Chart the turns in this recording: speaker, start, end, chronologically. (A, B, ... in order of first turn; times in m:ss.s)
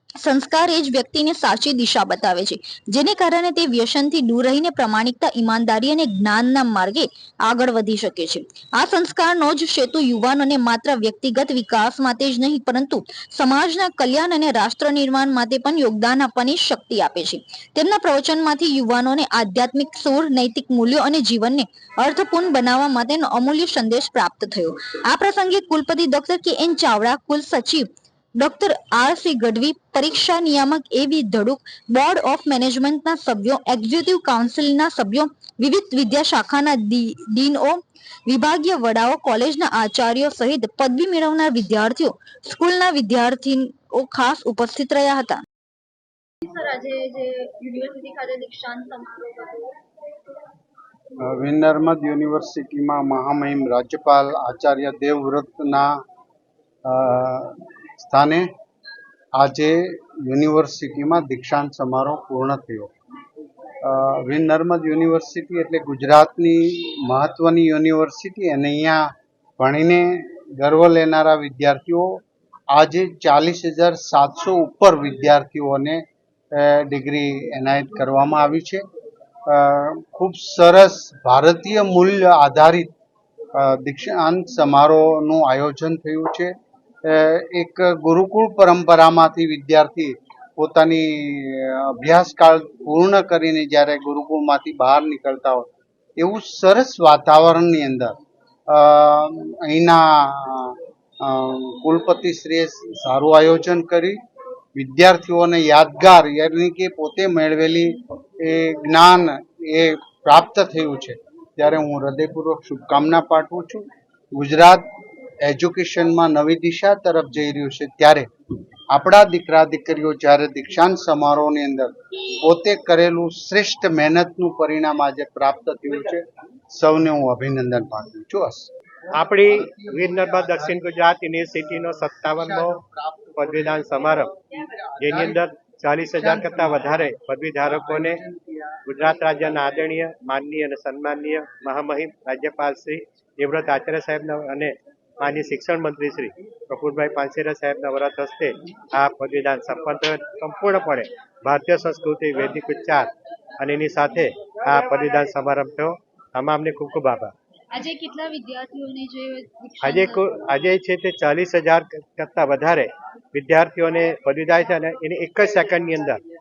0:00.2-0:45.4 A
0:46.4-0:49.7 B
0:51.2-0:56.0 C
0:56.8-0:58.5 C
0:59.3-1:02.9 C
1:03.8-1:18.8 C
1:19.5-1:22.9 C
1:23.6-1:26.5 C
1:27.0-1:38.1 C
1:38.7-1:44.2 C
1:44.7-1:54.8 C
1:55.4-1:58.3 C
1:58.9-2:08.7 C
2:09.1-2:12.8 D
2:09.6-2:10.7 C
2:12.4-2:14.2 C
2:13.4-2:14.3 D
2:15.0-2:18.2 D
2:15.0-2:15.4 C
2:16.2-2:17.0 C
2:17.6-2:18.8 C
2:18.9-2:37.3 D
2:37.7-2:40.3 B
2:39.8-2:46.2 D